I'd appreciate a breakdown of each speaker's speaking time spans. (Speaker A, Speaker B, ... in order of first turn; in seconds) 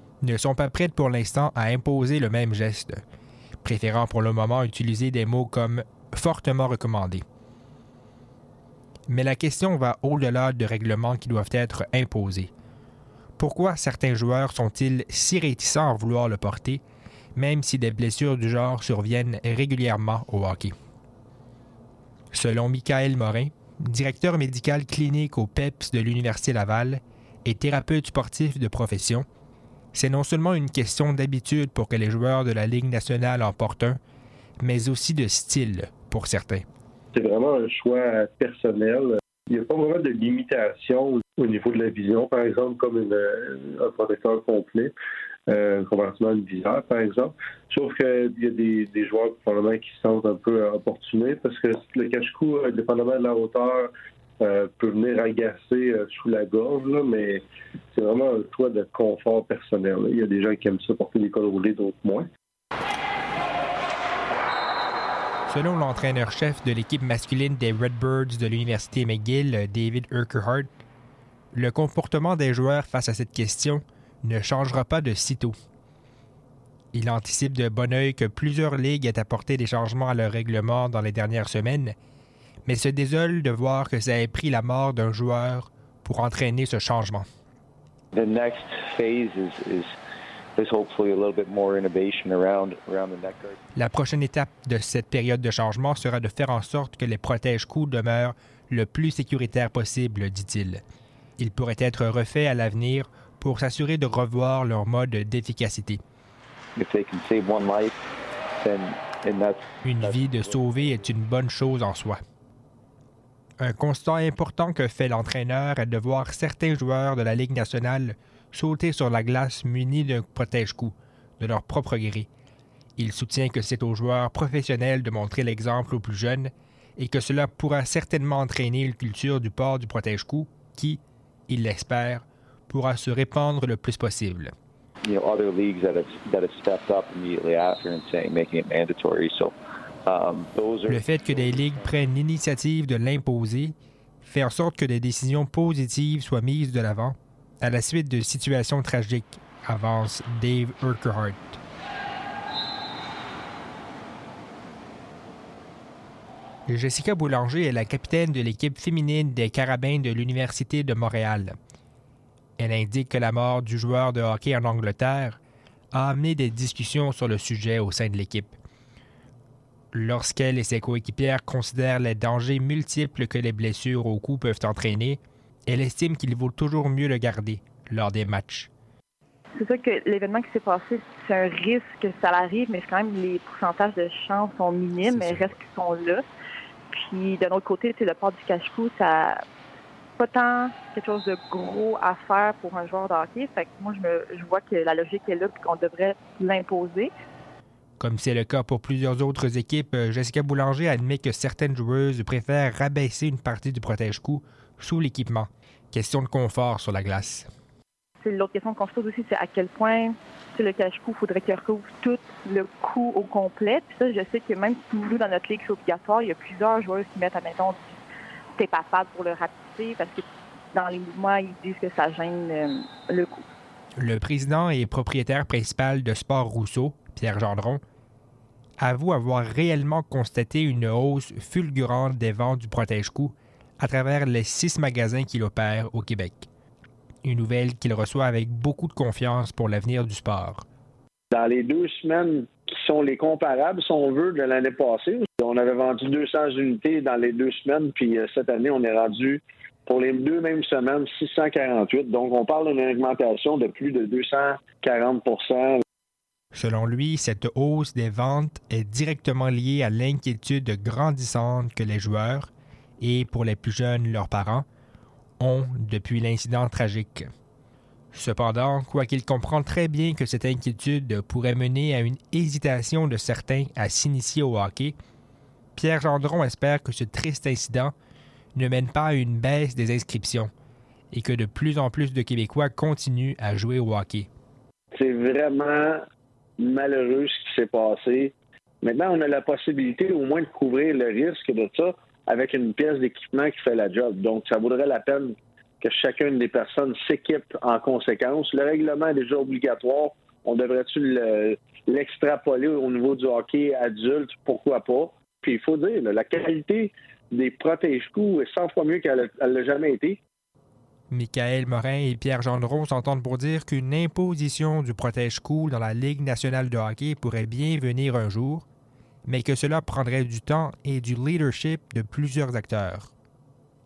Speaker A: 0.2-3.0, 3.6-7.2, 9.1-12.5, 13.4-16.8, 17.4-20.7, 22.3-29.2, 29.9-34.0, 34.6-36.6, 65.5-70.7, 71.5-75.5, 76.9-81.9, 82.7-87.2, 93.8-100.8, 101.4-106.0, 109.8-112.2, 113.6-122.3, 123.0-134.5, 140.9-151.6, 156.7-161.6, 162.6-165.4, 165.9-168.5, 169.9-178.7, 198.0-207.5, 224.0-227.8, 228.8-236.5, 237.2-240.6, 256.5-264.6, 265.4-267.3, 268.1-274.9, 275.8-277.9, 278.5-280.5, 281.1-284.3, 311.1-318.6, 319.2-323.1
Speaker B: 37.1-44.9, 45.5-53.9, 54.4-62.3
Speaker C: 88.1-89.9, 90.6-93.6, 106.8-108.0, 108.6-110.5, 135.0-139.5, 140.1-141.9
Speaker D: 179.6-186.2, 186.9-189.4, 190.2-197.1, 208.2-217.9, 218.6-223.4
Speaker E: 241.3-255.8, 284.9-286.0, 286.6-310.2